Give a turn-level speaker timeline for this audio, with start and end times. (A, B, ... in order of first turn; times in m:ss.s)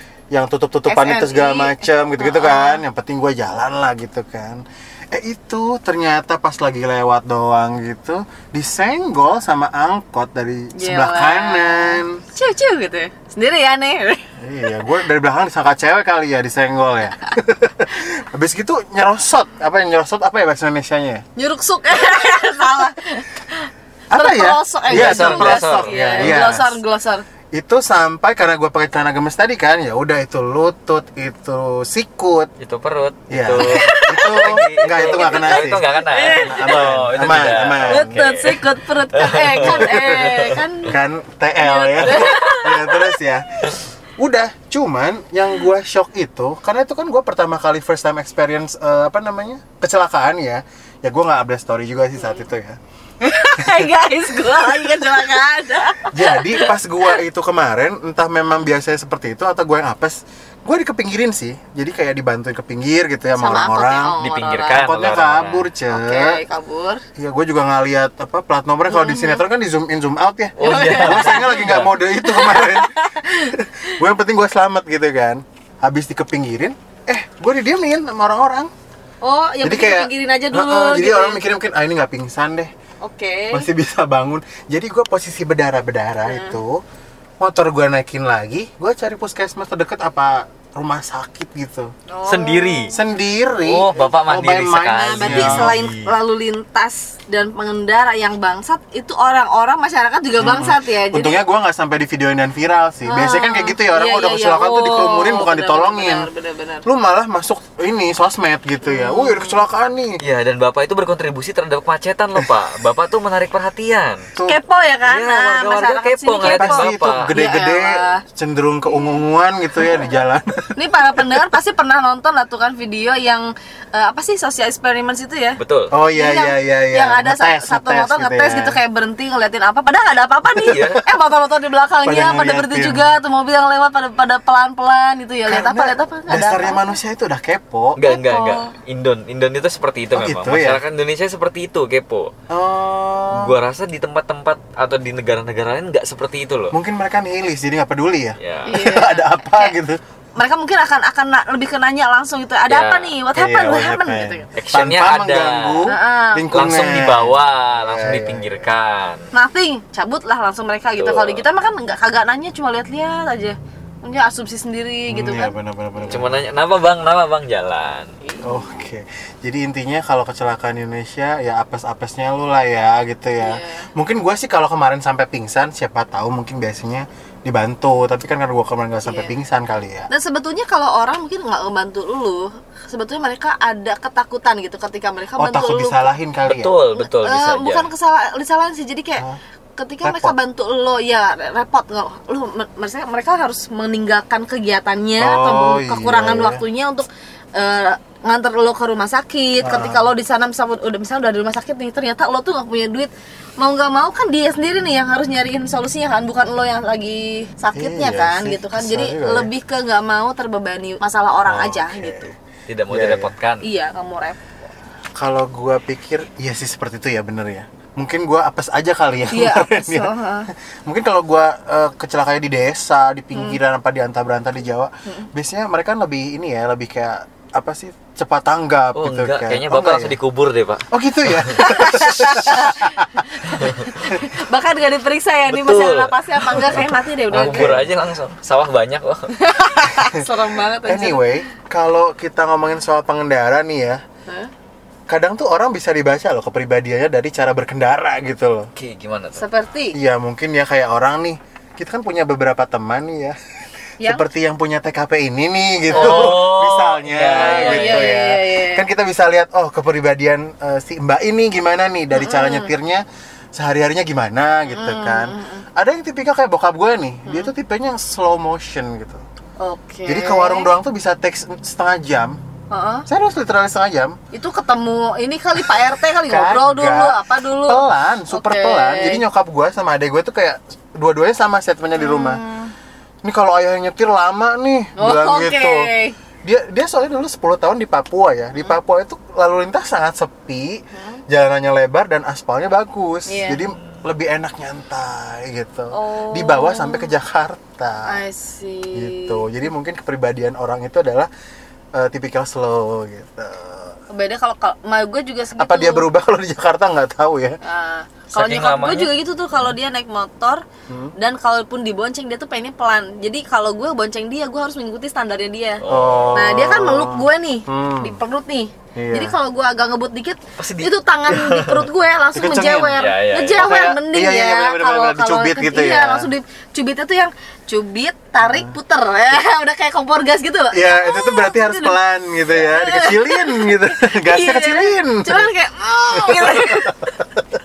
0:00.3-0:12.2 A
0:00.9-0:02.8 B
0:10.8-0:14.2 B
0:14.4-0:21.2 A
0:21.4-0:27.2 B
0:24.1-0:26.8 A
0:24.9-0:26.5 C
0:27.5-0:32.5 A
0:32.6-0:40.6 C
0:33.3-0:38.2 A
0:33.6-0:36.9 B
0:37.9-0:40.9 B
0:39.6-0:43.5 A
0:41.6-0:43.2 B
0:42.0-0:42.6 C
0:44.2-0:52.8 A
0:53.2-0:57.1 B
0:53.6-0:53.9 A
0:56.1-1:04.2 A
1:03.4-1:04.9 B
1:04.2-1:05.6 C
1:04.7-1:06.4 A
1:05.9-1:07.0 B
1:07.2-1:13.0 A
1:08.9-1:09.4 B
1:10.6-1:11.9 C
1:10.6-1:13.6 B
1:13.5-1:18.7 A
1:19.2-1:21.4 B
1:19.6-1:22.7 A
1:23.0-1:23.7 B
1:23.5-1:26.8 A
1:26.2-1:26.6 B
1:27.4-1:31.9 A
1:32.1-1:33.1 B
1:32.2-1:32.9 C
1:32.9-1:35.8 A
1:33.6-1:36.1 C
1:35.0-1:41.4 B
1:40.4-1:46.3 A
1:43.0-1:46.8 B
1:46.8-1:50.2 A
1:48.8-1:49.6 B
1:50.2-1:54.3 C
1:54.4-1:58.2 B
1:55.0-1:57.3 C
1:56.4-2:00.8 A
2:00.8-2:05.6 B
2:05.6-2:05.9 C
2:05.9-2:08.8 A
2:06.1-2:17.0 B
2:10.5-2:11.0 C
2:12.0-2:13.1 A
2:15.4-2:18.0 A
2:18.0-2:22.3 C
2:18.0-2:18.7 B
2:20.1-2:20.8 A
2:22.5-2:23.6 A
2:23.3-2:26.8 C
2:26.7-2:30.0 A
2:28.4-2:28.8 C
2:28.7-2:29.8 B
2:30.4-2:34.5 B
2:32.7-2:33.1 C
2:33.3-2:38.7 A
2:34.6-2:35.9 C
2:35.9-2:36.5 B
2:36.5-2:39.3 C
2:39.3-2:45.5 B
2:41.0-2:41.4 C
2:45.1-2:46.4 A
2:46.1-2:48.1 C
2:48.2-2:48.7 B
2:48.4-3:00.1 A
2:53.4-2:53.9 B
2:59.0-2:59.3 B
3:00.1-3:06.1 B
3:05.4-3:06.8 A
3:06.4-3:07.9 C
3:07.0-3:09.2 B
3:09.8-3:32.3 B
3:10.0-3:10.3 A
3:15.2-3:16.6 A
3:19.6-3:20.1 A
3:27.7-3:29.5 A
3:31.4-3:32.3 A
3:32.7-3:33.6 C
3:32.9-3:33.3 A
3:33.6-3:34.4 B
3:35.2-3:40.1 A
3:39.3-3:40.5 B
3:40.9-3:50.2 A
3:43.3-3:43.6 B
3:48.9-3:52.7 C
3:50.9-3:53.2 A
3:51.6-3:57.7 B
3:53.4-3:53.9 C
3:55.5-3:59.4 C
3:57.3-3:57.9 A
3:59.4-4:01.4 B
4:00.0-4:00.3 A
4:00.8-4:04.0 A
4:05.1-4:08.7 A
4:08.8-4:09.4 C
4:09.4-4:10.0 B
4:09.9-4:13.4 A
4:14.0-4:29.2 A
4:15.9-4:16.4 B
4:15.9-4:18.2 C
4:17.4-4:18.9 B
4:22.1-4:22.7 B
4:24.7-4:25.6 B
4:29.6-4:30.7 B
4:30.1-4:32.4 A
4:32.7-4:33.1 B
4:33.1-4:34.2 A
4:34.3-4:39.2 B
4:36.2-4:42.4 A
4:42.0-4:42.7 B
4:43.2-4:45.9 A
4:45.0-4:46.1 B
4:46.4-4:58.2 A
4:50.9-4:51.2 B
4:53.3-4:53.6 B
4:55.9-4:57.1 B
4:58.1-4:59.4 B
4:58.9-5:01.3 A
5:01.9-5:04.0 A
5:04.1-5:06.1 B
5:05.6-5:07.6 A
5:07.6-5:10.6 B
5:08.3-5:09.1 C
5:11.2-5:32.0 B
5:15.8-5:16.5 C
5:15.9-5:18.2 A
5:19.0-5:19.4 A
5:20.6-5:21.9 C
5:22.3-5:23.1 A
5:22.9-5:23.8 C
5:23.6-5:26.3 A
5:28.4-5:28.7 A
5:30.7-5:35.5 A
5:32.6-5:37.0 B
5:36.1-5:37.4 A